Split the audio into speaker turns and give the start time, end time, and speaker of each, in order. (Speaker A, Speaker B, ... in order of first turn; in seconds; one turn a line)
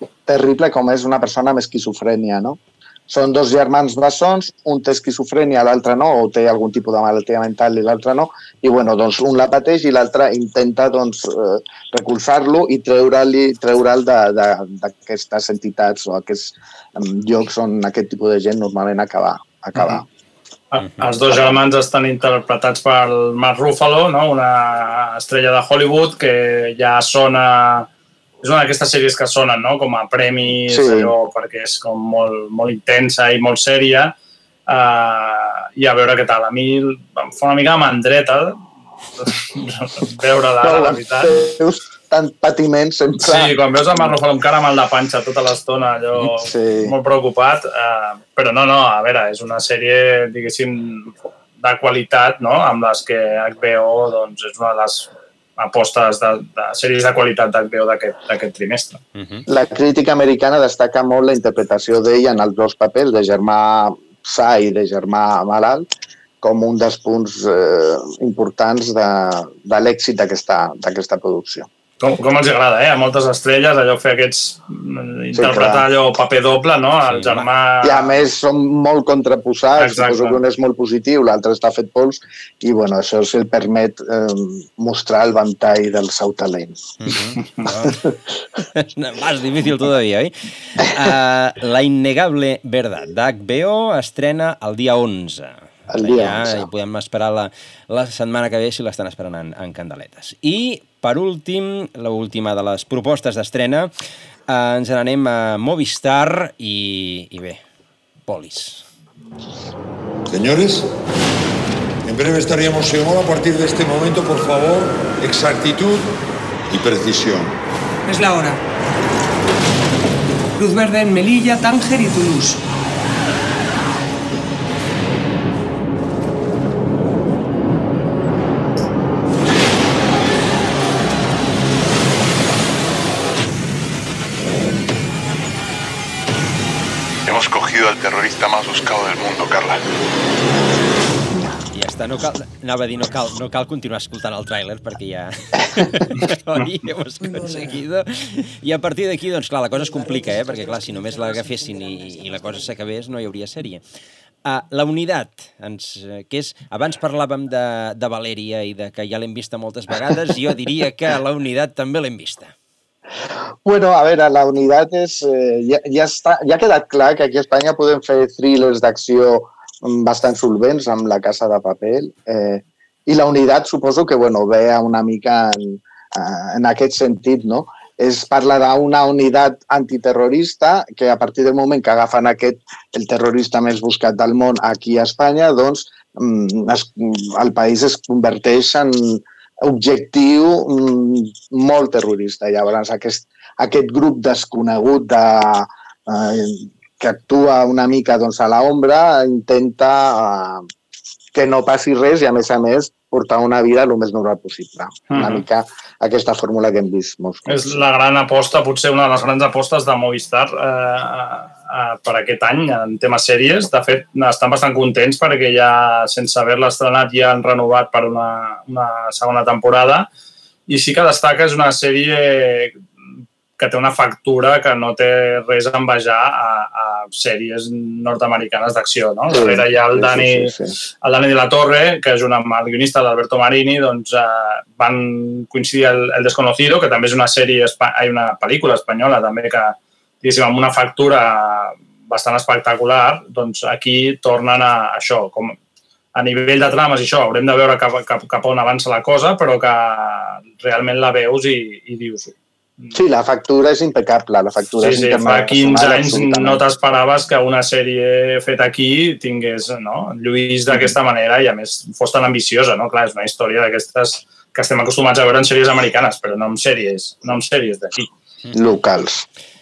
Speaker A: 0.3-20.1
Speaker B: 20.7-27.9
Speaker C: 20.8-21.4
Speaker B: 28.4-34.1
Speaker A: 30.7-31.1
Speaker B: 34.7-38.6
Speaker B: 39.2-41.5
Speaker A: 40.6-44.1
Speaker B: 43.2-59.0
Speaker A: 46.2-46.9
Speaker C: 59.1-59.5
Speaker A: 59.5-65.9
Speaker A: 66.4-71.7
Speaker B: 72.0-78.2
Speaker A: 75.3-75.9
Speaker C: 77.1-77.5
Speaker A: 77.8-86.8
Speaker B: 79.8-80.4
Speaker C: 87.0-88.0
Speaker C: 88.8-103.9
Speaker A: 95.9-96.7
Speaker C: 104.5-107.6
Speaker C: 108.3-108.8
Speaker D: 110.3-110.9
Speaker D: 112.0-116.1
Speaker D: 116.7-117.6
Speaker E: 118.1-118.6
Speaker E: 120.6-122.6
Speaker F: 137.3-139.8
Speaker C: 141.7-153.8
Speaker C: 154.4-162.5
Speaker A: 163.7-200.7
Speaker A: 201.3-207.8
Speaker B: 205.1-205.4
Speaker B: 207.5-220.1
Speaker B: 220.7-222.8
Speaker B: 223.6-245.6
Speaker A: 229.3-230.7
Speaker B: 246.2-252.9
Speaker A: 252.9-256.6
Speaker B: 254.8-268.1
Speaker A: 268.5-269.3